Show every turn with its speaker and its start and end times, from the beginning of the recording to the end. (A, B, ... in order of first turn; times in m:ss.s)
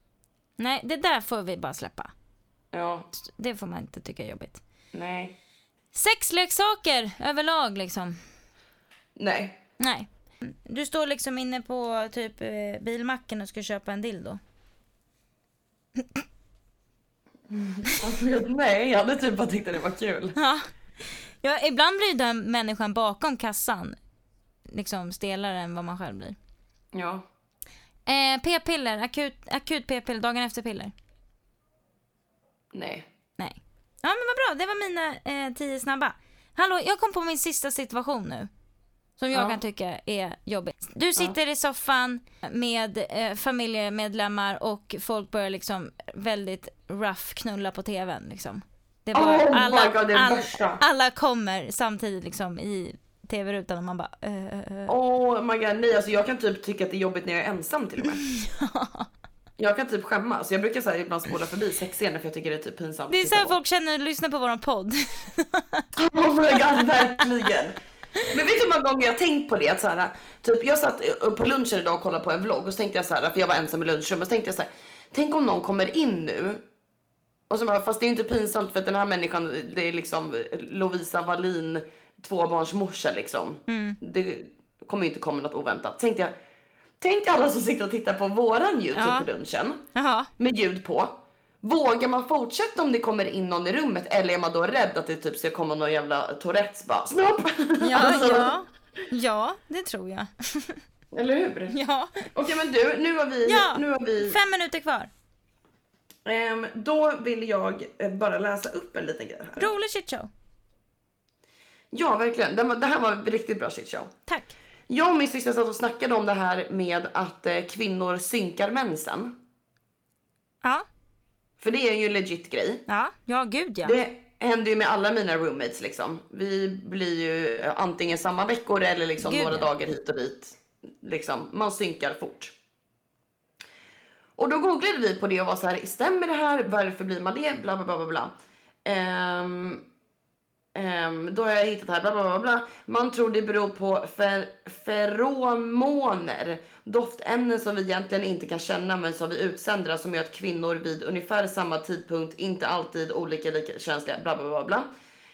0:00.6-0:02.1 A
0:02.7-0:03.1 B
0:03.1-0:04.6 A
0:04.9-0:05.4 B
0:05.9-0:08.2 A
0:09.2-0:09.6 B
0:09.8-0:14.4 A
0:17.5-0:20.4 B
0:20.4-0:24.0 A
0:24.7-0:26.4 A
0:26.9-0:27.2 B
0:28.1-0:30.9 A
0:32.7-0:33.1 B
0:33.4-0:38.5 A
0:39.2-0:54.9 A
0:39.3-0:39.6 B
0:49.1-0:50.8 B
0:54.9-0:58.2 B
0:58.2-0:59.1 A
0:59.6-1:03.6 B
1:03.1-1:05.8 A
1:06.0-1:07.8 B
1:08.3-1:16.6 B
1:17.5-1:26.3 B
1:23.7-1:24.0 A
1:27.0-1:29.8 B
1:28.9-1:29.3 A
1:29.9-1:30.3 A
1:30.4-1:38.5 B
1:37.8-1:40.8 A
1:41.1-1:41.7 B
1:41.7-1:42.4 A
1:42.3-1:44.4 B
1:43.4-1:45.1 A
1:46.2-1:49.7 B
1:49.6-1:50.3 A
1:51.9-1:54.1 B
1:54.3-1:54.5 A
1:54.9-1:59.4 B
2:01.6-2:02.8 B
2:02.9-2:04.0 A
2:03.8-2:12.5 B
2:09.2-2:09.7 A
2:14.4-2:19.8 B
2:20.7-2:34.9 B